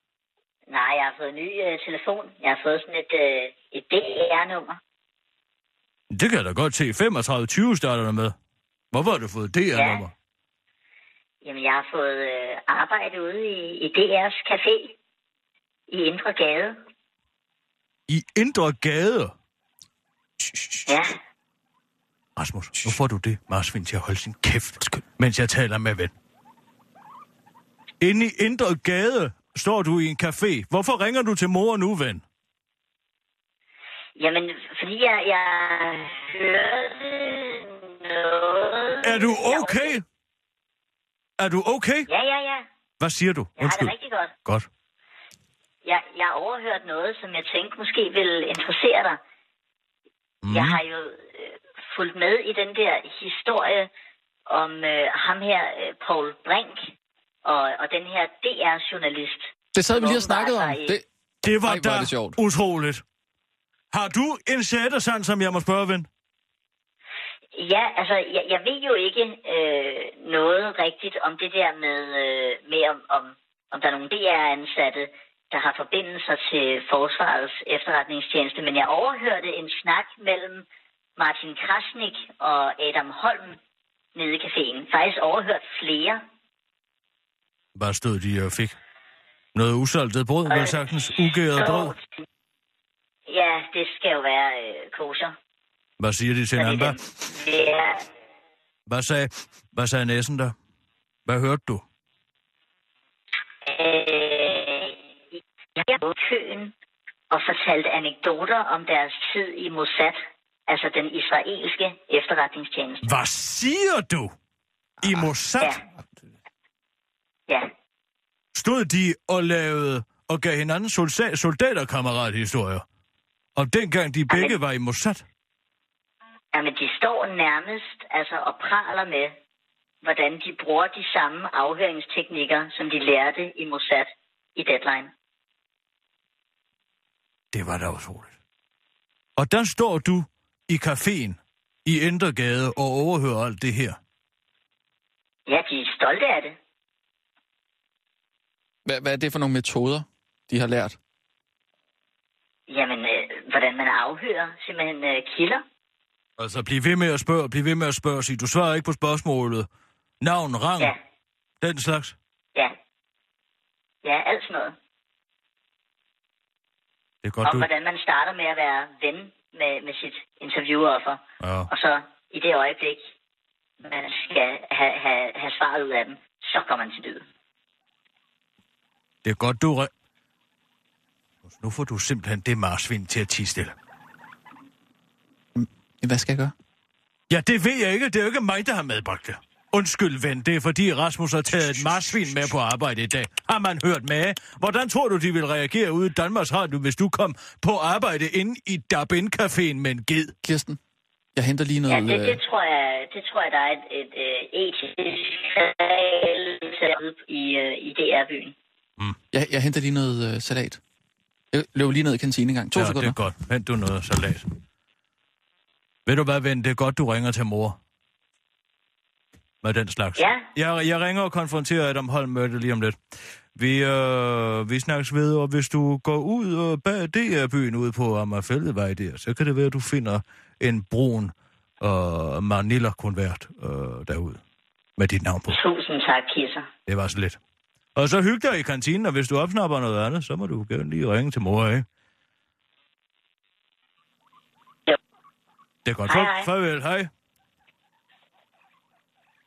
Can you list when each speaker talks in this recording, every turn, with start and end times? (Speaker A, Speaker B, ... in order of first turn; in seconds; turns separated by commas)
Speaker A: 0.7-4.8, Speaker B: 6.1-8.3, Speaker B: 8.9-10.1, Speaker A: 9.7-10.0, Speaker A: 11.4-14.9, Speaker A: 15.9-16.8, Speaker B: 18.1-19.3, Speaker C: 20.4-20.9, Speaker A: 20.9-21.2, Speaker B: 22.4-26.1, Speaker B: 28.0-32.2, Speaker A: 34.2-40.0, Speaker B: 39.0-40.0, Speaker B: 41.4-42.1, Speaker A: 42.1-42.7, Speaker B: 43.0-43.9, Speaker A: 43.6-44.3, Speaker A: 45.8-49.2, Speaker B: 50.4-50.8, Speaker A: 50.5-53.9, Speaker A: 54.5-56.9, Speaker A: 57.4-61.0, Speaker C: 59.7-61.0, Speaker B: 61.4-63.0, Speaker C: 61.6-62.4, Speaker B: 63.9-66.1, Speaker A: 67.5-80.7, Speaker A: 81.2-83.6, Speaker A: 84.2-86.2, Speaker B: 87.8-88.8, Speaker B: 89.5-91.9, Speaker A: 90.5-90.8, Speaker A: 91.5-92.0, Speaker A: 93.3-95.3, Speaker B: 96.0-97.0, Speaker A: 96.6-98.0, Speaker B: 98.9-100.5, Speaker B: 101.3-101.8, Speaker A: 103.6-105.0, Speaker A: 105.8-106.7, Speaker A: 107.3-113.1, Speaker B: 113.0-114.3, Speaker B: 115.0-115.8, Speaker B: 118.5-122.8, Speaker B: 123.6-125.2, Speaker A: 124.3-124.6, Speaker A: 126.5-129.3, Speaker A: 130.0-135.1, Speaker B: 137.5-138.3, Speaker B: 139.4-144.0, Speaker A: 145.5-146.6, Speaker C: 148.8-151.0, Speaker A: 152.7-155.6, Speaker B: 156.4-159.7, Speaker B: 160.2-160.9, Speaker B: 161.6-162.2, Speaker A: 164.0-164.8, Speaker B: 167.2-167.7, Speaker A: 167.4-173.1, Speaker B: 171.4-171.7, Speaker A: 173.8-177.2, Speaker B: 179.2-179.9, Speaker B: 181.5-183.8, Speaker C: 185.6-186.5, Speaker B: 187.3-200.3, Speaker C: 200.4-200.8, Speaker C: 201.4-202.4, Speaker A: 201.9-208.6, Speaker C: 209.3-210.8, Speaker C: 211.5-213.2, Speaker B: 212.8-214.5, Speaker B: 216.1-217.8, Speaker B: 219.6-223.0, Speaker A: 220.2-220.5, Speaker B: 223.6-234.4, Speaker B: 235.0-235.6, Speaker A: 235.5-236.7, Speaker B: 236.9-237.4, Speaker B: 238.0-241.8, Speaker B: 245.8-247.1, Speaker A: 246.1-246.5